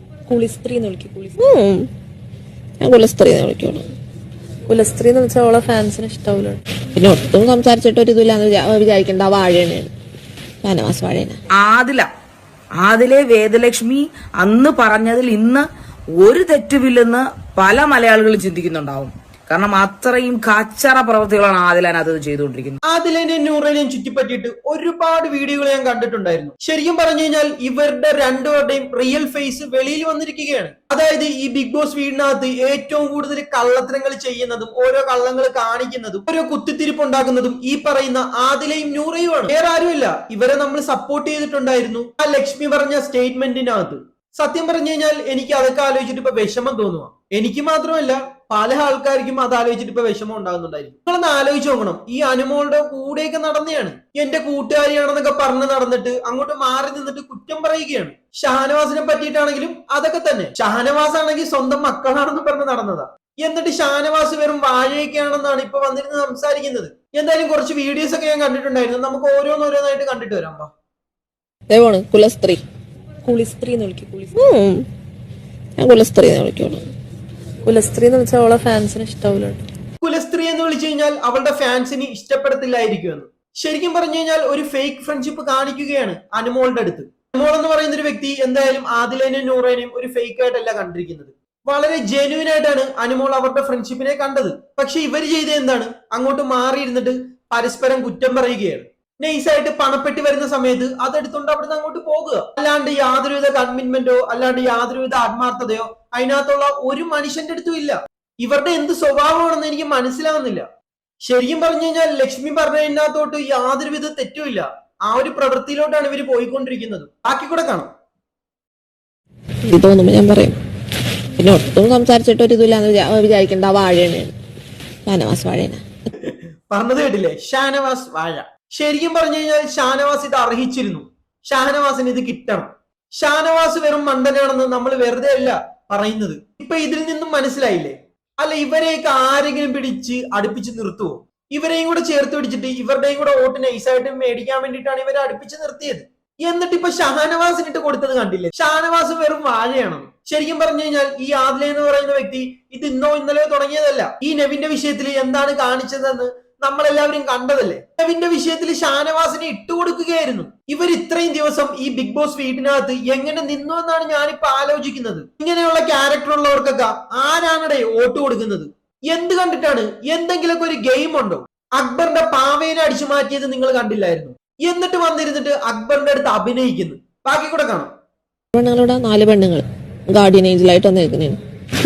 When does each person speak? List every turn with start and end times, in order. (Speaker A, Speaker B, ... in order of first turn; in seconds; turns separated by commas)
Speaker A: 0.3-1.4, Speaker B: 1.4-1.9, Speaker B: 2.8-3.9, Speaker A: 4.7-6.6, Speaker B: 7.0-9.9, Speaker B: 10.6-11.4, Speaker C: 11.6-12.1, Speaker C: 12.8-15.7, Speaker C: 16.2-22.8, Speaker D: 22.9-70.7, Speaker B: 71.7-72.6, Speaker A: 73.2-74.3, Speaker B: 74.4-74.8, Speaker B: 75.8-76.8, Speaker A: 77.7-79.6, Speaker D: 80.0-110.7, Speaker D: 111.2-117.9, Speaker B: 119.7-120.6, Speaker B: 121.4-124.3, Speaker B: 125.1-125.8, Speaker D: 126.2-177.9, Speaker B: 178.6-181.4